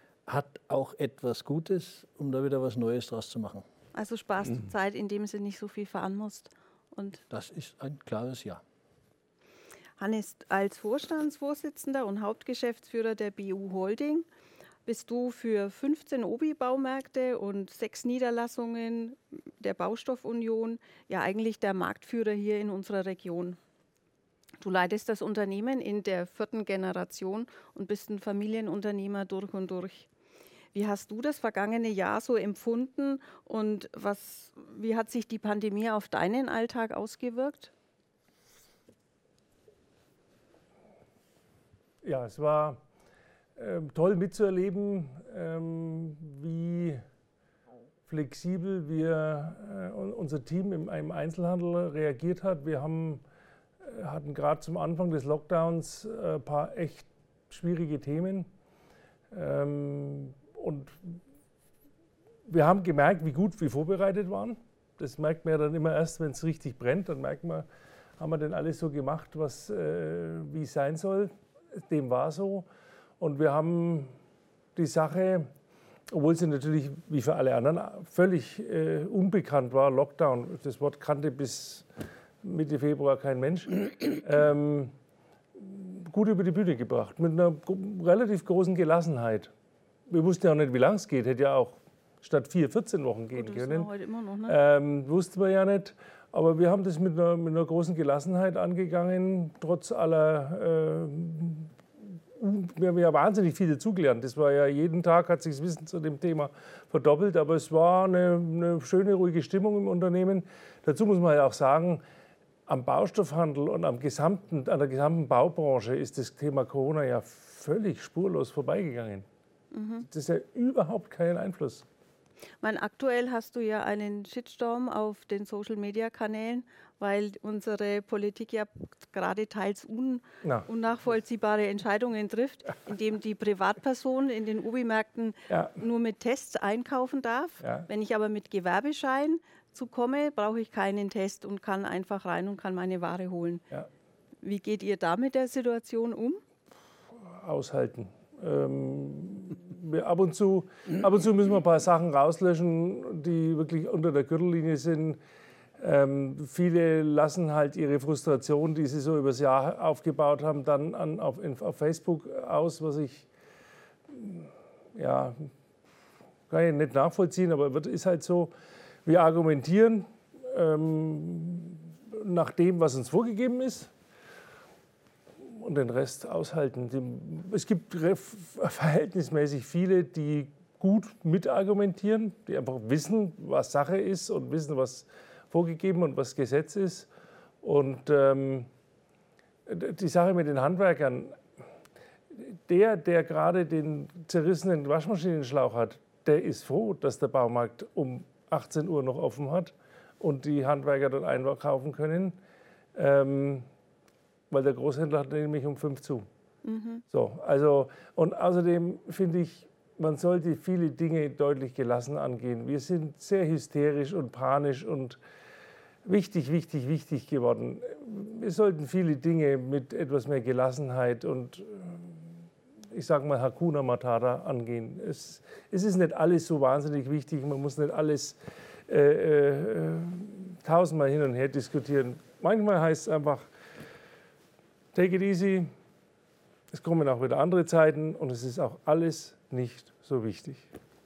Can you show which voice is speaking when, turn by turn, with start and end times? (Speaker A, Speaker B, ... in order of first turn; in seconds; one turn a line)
Speaker A: 0.3-3.6
Speaker B: 4.0-7.2
Speaker A: 7.3-8.6
Speaker B: 10.0-14.3
Speaker B: 14.8-23.6
Speaker B: 24.6-30.1
Speaker B: 30.7-37.7
Speaker C: 42.0-42.8
Speaker C: 43.6-47.0
Speaker C: 48.1-53.2
Speaker C: 53.8-58.5
Speaker C: 59.3-61.2
Speaker C: 62.5-67.7
Speaker C: 68.2-72.7
Speaker C: 73.2-74.1
Speaker C: 74.8-75.5
Speaker C: 76.1-81.9
Speaker C: 82.4-84.9
Speaker C: 85.6-89.5
Speaker C: 90.1-93.9
Speaker B: 93.3-94.6
Speaker C: 94.5-101.7
Speaker C: 102.4-112.0
Speaker C: 112.7-119.3
Speaker B: 119.7-120.1
Speaker C: 120.1-121.8
Speaker B: 122.6-143.6
Speaker C: 130.4-130.7
Speaker C: 135.5-135.7
Speaker C: 137.6-137.9
Speaker B: 144.4-146.4
Speaker C: 147.3-155.2
Speaker C: 155.8-163.3
Speaker C: 164.1-165.5
Speaker C: 166.5-168.5
Speaker C: 169.1-173.9
Speaker C: 175.4-187.1
Speaker C: 187.6-188.7
Speaker C: 189.7-191.4
Speaker C: 192.3-202.4
Speaker C: 202.9-203.7
Speaker C: 204.5-206.3
Speaker B: 206.6-207.0
Speaker C: 207.1-215.2
Speaker C: 216.1-222.1
Speaker C: 222.9-228.4
Speaker C: 228.9-233.4
Speaker C: 234.9-235.7
Speaker C: 236.7-240.7